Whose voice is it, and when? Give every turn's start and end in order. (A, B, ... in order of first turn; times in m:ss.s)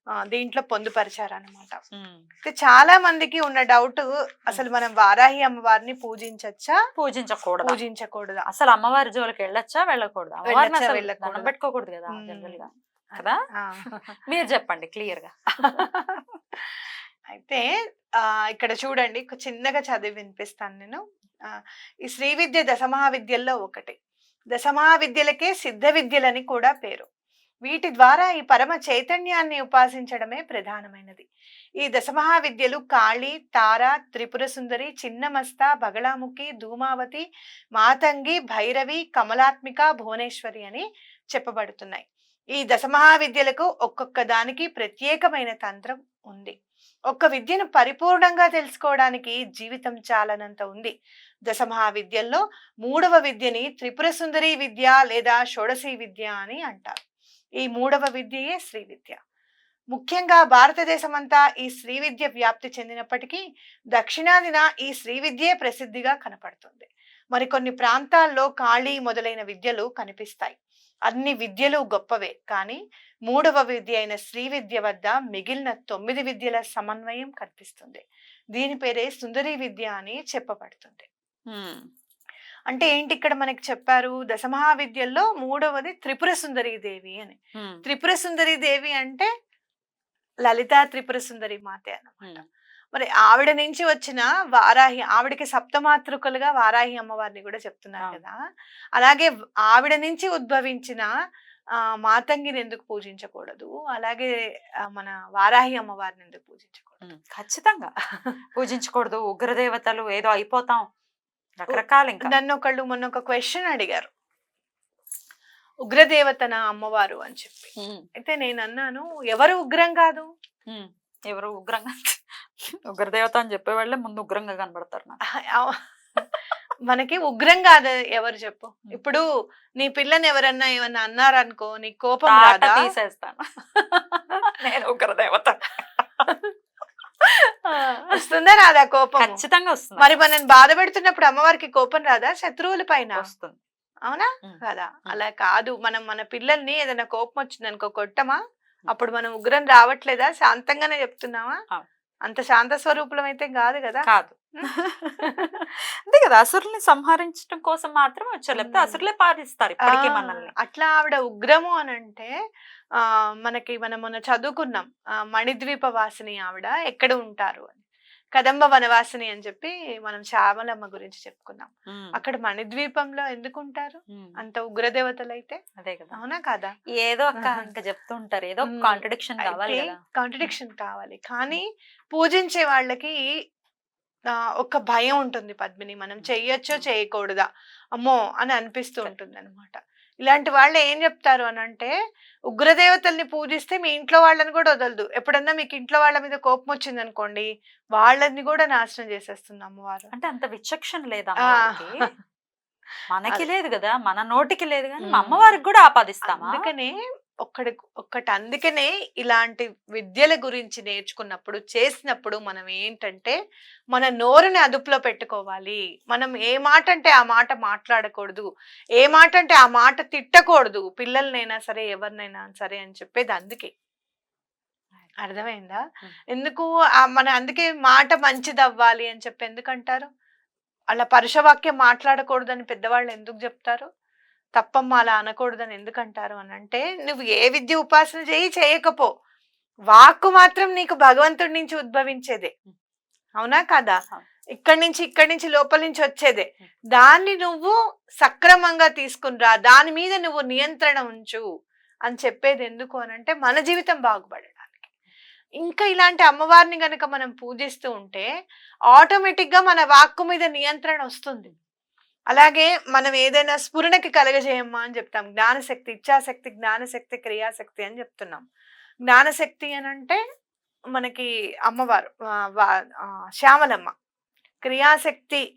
0:00.3-0:01.8 A
0:02.0-0:02.2 B
0:02.4-0:06.8 A
0:07.0-0:07.8 B
0:07.6-0:08.5 A
0:08.5-0:15.8 B
0:10.5-0:11.5 A
0:12.1-0:12.6 A
0:13.2-0:13.9 A
0:15.6-0:16.2 A
0:17.3-0:17.6 A
0:18.2-0:24.0 A
0:24.5-0:27.1 A
0:27.7-0:31.3 A
0:31.8-0:37.2 A
0:37.8-0:46.5 A
0:47.1-0:50.9 A
0:51.5-0:56.9 A
0:57.6-0:59.2 A
0:59.9-1:03.4 A
1:04.0-1:10.6 A
1:11.1-1:18.0 A
1:18.6-1:21.1 A
1:21.5-1:21.9 B
1:22.7-1:29.3 A
1:30.5-1:32.4 A
1:32.9-1:38.4 A
1:39.0-1:41.1 A
1:42.0-1:44.3 A
1:44.9-1:47.0 A
1:47.0-1:47.9 B
1:48.6-1:50.9 B
1:51.6-1:52.3 B
1:51.7-1:54.1 A
1:55.9-2:00.3 A
1:57.8-1:58.0 B
2:00.7-2:02.2 B
2:02.9-2:05.2 B
2:05.4-2:06.4 A
2:06.9-2:09.2 A
2:09.8-2:12.9 A
2:12.3-2:16.3 B
2:17.8-2:18.2 B
2:17.8-2:19.4 A
2:19.2-2:20.0 B
2:20.0-2:23.3 A
2:23.2-2:23.6 B
2:24.1-2:28.4 A
2:24.4-2:25.2 B
2:28.9-2:31.6 A
2:32.3-2:34.1 A
2:34.1-2:40.5 B
2:35.2-2:35.5 A
2:38.6-2:39.0 A
2:39.8-2:42.3 A
2:43.0-2:47.8 A
2:48.4-2:55.6 A
2:54.1-2:54.4 B
2:55.8-2:56.2 B
2:56.1-2:56.8 A
2:57.0-3:00.5 B
2:57.4-2:57.6 A
2:58.6-3:03.2 A
3:04.6-3:07.5 A
3:06.2-3:06.9 B
3:08.0-3:11.9 A
3:12.5-3:20.1 A
3:20.1-3:21.9 B
3:21.4-3:21.8 A
3:23.1-3:26.6 B
3:25.1-3:25.6 A
3:26.3-3:33.4 A
3:33.9-3:38.5 A
3:39.0-3:43.7 A
3:45.2-3:45.8 A
3:46.3-3:50.1 A
3:50.9-3:53.9 A
3:54.6-3:59.1 A
3:59.9-4:02.5 A
4:03.4-4:04.0 A
4:04.6-4:11.4 A
4:12.1-4:14.9 A
4:15.6-4:18.3 A
4:18.9-4:21.5 A
4:22.3-4:28.4 A
4:29.1-4:30.2 A
4:30.9-4:33.9 A
4:34.6-4:35.4 A